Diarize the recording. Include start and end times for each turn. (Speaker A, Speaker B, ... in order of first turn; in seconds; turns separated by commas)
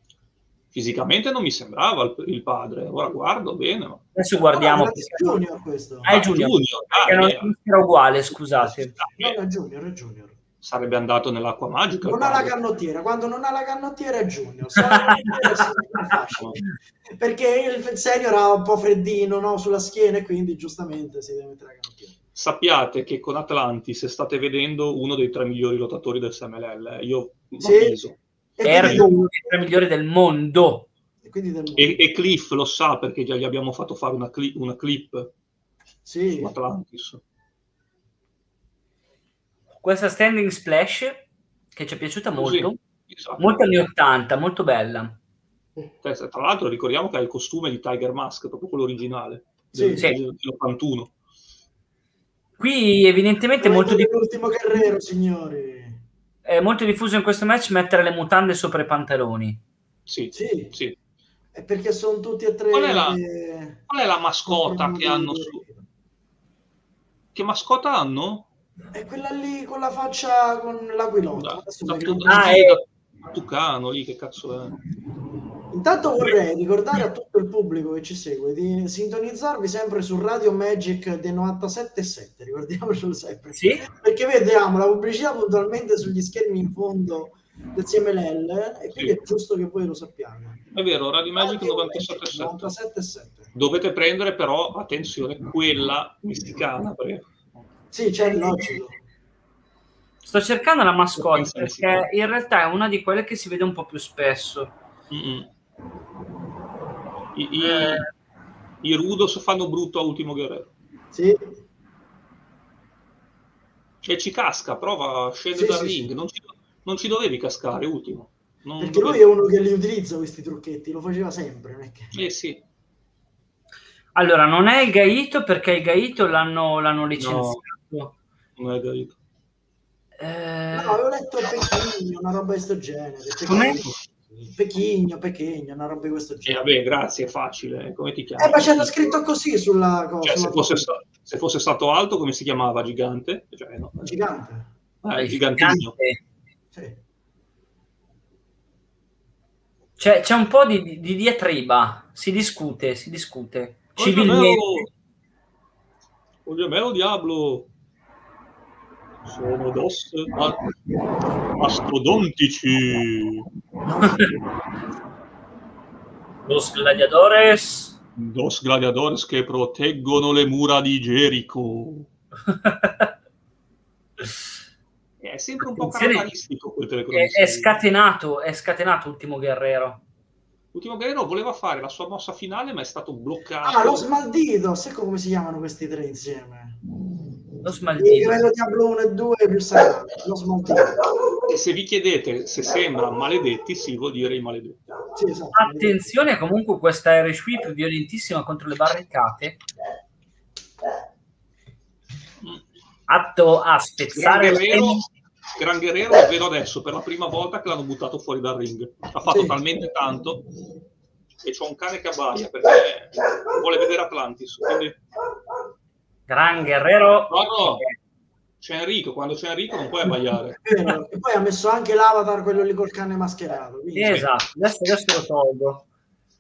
Speaker A: 0.7-4.1, Speaker B: 4.1-5.4, Speaker C: 4.5-6.2, Speaker A: 6.0-7.5, Speaker B: 6.0-8.9, Speaker C: 8.7-10.4, Speaker A: 9.0-9.4, Speaker A: 10.6-12.5, Speaker C: 12.1-22.2, Speaker B: 14.8-15.7, Speaker A: 22.4-28.2, Speaker C: 27.6-28.0, Speaker C: 28.6-29.3, Speaker B: 28.6-30.9, Speaker A: 28.7-29.0, Speaker C: 31.2-32.0, Speaker A: 31.8-35.3, Speaker C: 36.0-36.5, Speaker A: 36.3-37.2, Speaker B: 39.8-41.2, Speaker B: 41.7-42.8, Speaker A: 42.4-43.6, Speaker B: 43.4-45.2, Speaker A: 46.0-51.1, Speaker C: 49.7-50.0, Speaker B: 52.6-54.1, Speaker C: 53.6-56.0, Speaker B: 56.5-59.6, Speaker A: 60.1-61.0, Speaker C: 60.3-60.7, Speaker C: 61.5-63.9, Speaker A: 62.7-63.2, Speaker A: 63.9-65.6, Speaker C: 64.5-65.8, Speaker A: 67.3-68.5, Speaker C: 68.9-72.6, Speaker A: 71.3-74.8, Speaker B: 72.3-72.8, Speaker C: 75.7-90.6, Speaker B: 83.5-83.8, Speaker A: 90.7-92.7, Speaker C: 91.4-93.5, Speaker A: 93.5-97.4, Speaker C: 97.9-99.0, Speaker B: 100.2-104.7, Speaker A: 101.2-102.0, Speaker A: 105.1-105.5, Speaker A: 107.3-108.0, Speaker B: 107.6-108.0, Speaker A: 108.8-110.7, Speaker C: 111.1-111.6, Speaker A: 114.0-119.2, Speaker C: 115.5-116.1, Speaker C: 118.8-122.2, Speaker A: 122.1-122.6, Speaker B: 124.2-128.1, Speaker A: 127.2-127.6, Speaker A: 128.6-129.2, Speaker B: 130.2-131.0, Speaker C: 130.7-136.6, Speaker B: 133.4-133.9, Speaker A: 136.5-139.2, Speaker C: 138.4-140.9, Speaker A: 140.2-144.2, Speaker C: 144.0-144.7, Speaker A: 145.0-145.9, Speaker B: 145.2-146.2, Speaker C: 146.7-147.0, Speaker B: 150.0-154.8, Speaker A: 154.0-154.9, Speaker A: 156.4-157.7, Speaker A: 159.2-160.6, Speaker A: 161.6-163.5, Speaker B: 164.0-164.3, Speaker B: 166.4-168.0, Speaker A: 168.2-172.1, Speaker B: 172.5-173.1, Speaker A: 175.2-177.8, Speaker B: 175.7-176.2, Speaker B: 177.1-180.0, Speaker A: 180.7-184.1, Speaker C: 183.6-186.8, Speaker B: 187.6-188.4, Speaker C: 188.0-191.0, Speaker A: 191.4-194.8, Speaker C: 195.2-196.0, Speaker B: 195.6-199.6, Speaker B: 203.1-205.0, Speaker A: 204.1-210.5, Speaker C: 209.3-209.6, Speaker A: 211.4-215.0, Speaker B: 216.3-217.9, Speaker A: 217.3-217.8, Speaker A: 218.6-220.6, Speaker C: 220.6-224.2, Speaker B: 223.9-225.8